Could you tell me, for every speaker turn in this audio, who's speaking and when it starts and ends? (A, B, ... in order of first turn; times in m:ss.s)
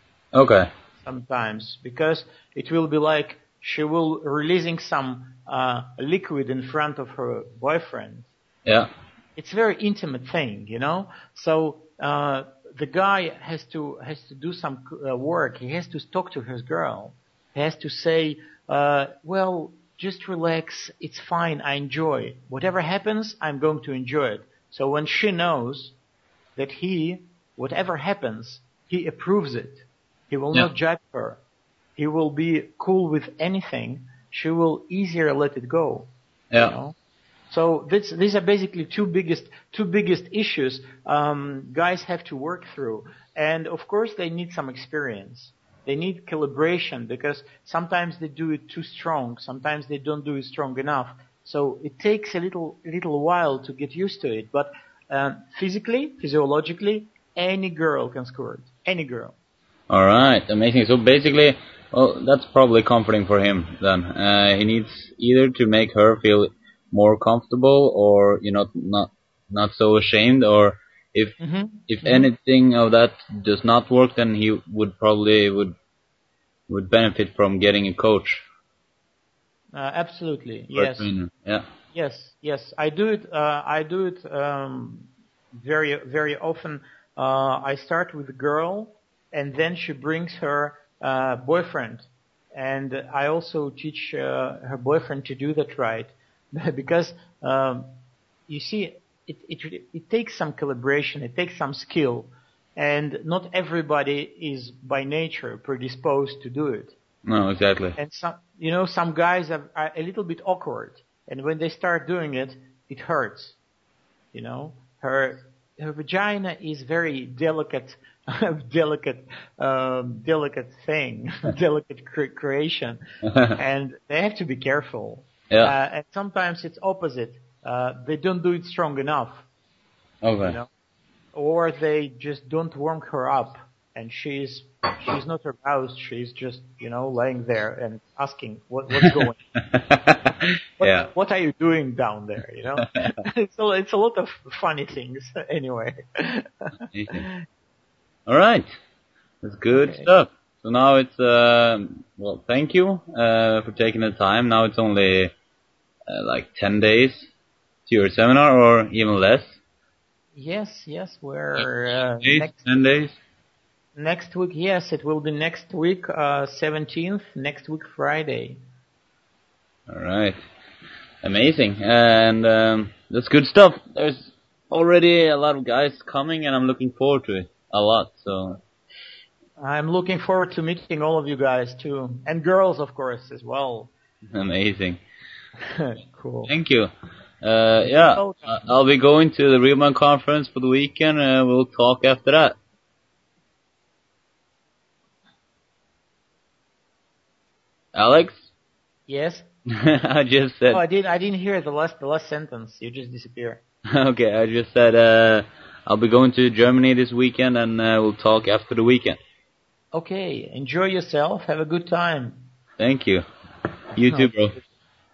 0:00.3-0:00.7 A
0:01.0-0:08.3 B
0:09.4-0:26.0 B
0:26.6-0:31.4 B
0:32.0-0:37.0 B
0:37.5-0:59.4 B
0:59.9-1:11.4 A
1:11.4-1:12.3 B
1:11.9-1:15.7 A
1:16.7-1:18.4 A
1:19.8-1:21.1 B
1:20.7-1:21.6 A
1:21.9-1:37.9 B
1:38.5-1:46.9 B
1:47.3-1:48.0 A
1:48.0-1:53.6 B
1:54.3-2:03.0 B
2:03.3-2:03.6 A
2:03.6-2:09.5 B
2:10.2-2:10.6 A
2:10.4-2:10.7 B
2:11.3-2:19.4 B
2:19.0-2:21.1 A
2:20.8-2:27.4 B
2:26.9-2:27.2 A
2:28.3-2:28.6 A
2:29.4-2:35.3 A
2:29.7-2:30.1 B
2:36.1-2:37.3 A
2:37.9-2:39.6 A
2:40.4-2:42.7 B
2:42.2-2:43.2 A
2:44.0-2:48.6 B
2:49.9-2:50.4 A
2:51.2-2:58.6 A
2:59.6-3:03.9 B
3:04.3-3:05.0 A
3:05.7-3:06.5 B
3:06.5-3:06.9 A
3:07.4-3:12.6 A
3:07.8-3:08.6 B
3:18.0-3:18.4 A
3:19.1-3:19.5 B
3:19.8-3:20.8 A
3:20.7-3:23.6 B
3:23.9-3:29.2 A
3:29.9-3:32.4 B
3:32.8-3:33.2 A
3:34.0-3:34.6 A
3:34.0-3:34.6 B